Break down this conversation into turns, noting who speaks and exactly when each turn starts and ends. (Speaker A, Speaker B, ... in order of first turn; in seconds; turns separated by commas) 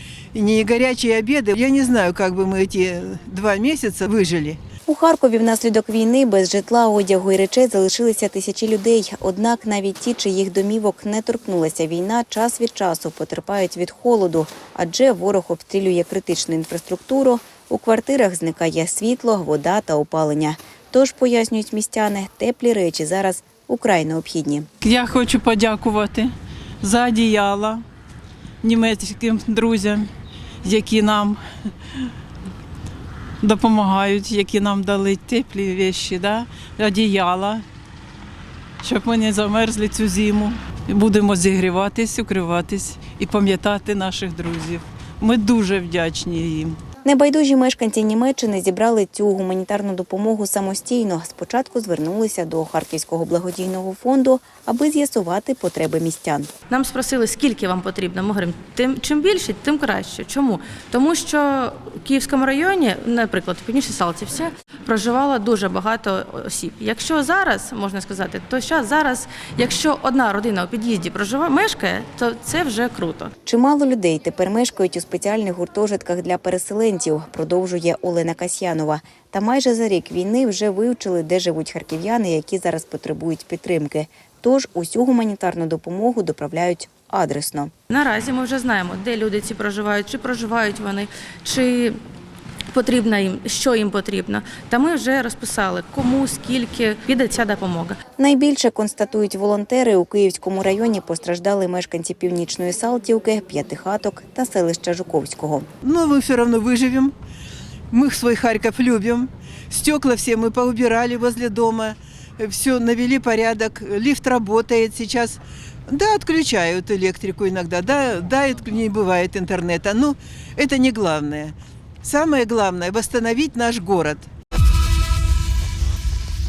Speaker A: 0.3-4.6, Speaker B: 4.9-24.7, Speaker C: 24.8-27.8, Speaker C: 28.6-30.1, Speaker C: 30.6-31.4, Speaker C: 33.4-37.6, Speaker C: 38.8-46.8, Speaker B: 47.0-56.5, Speaker D: 56.7-73.3, Speaker B: 73.5-87.7, Speaker D: 87.9-92.0, Speaker D: 92.7-98.0, Speaker B: 98.2-105.7, Speaker A: 105.8-107.1, Speaker A: 107.9-124.3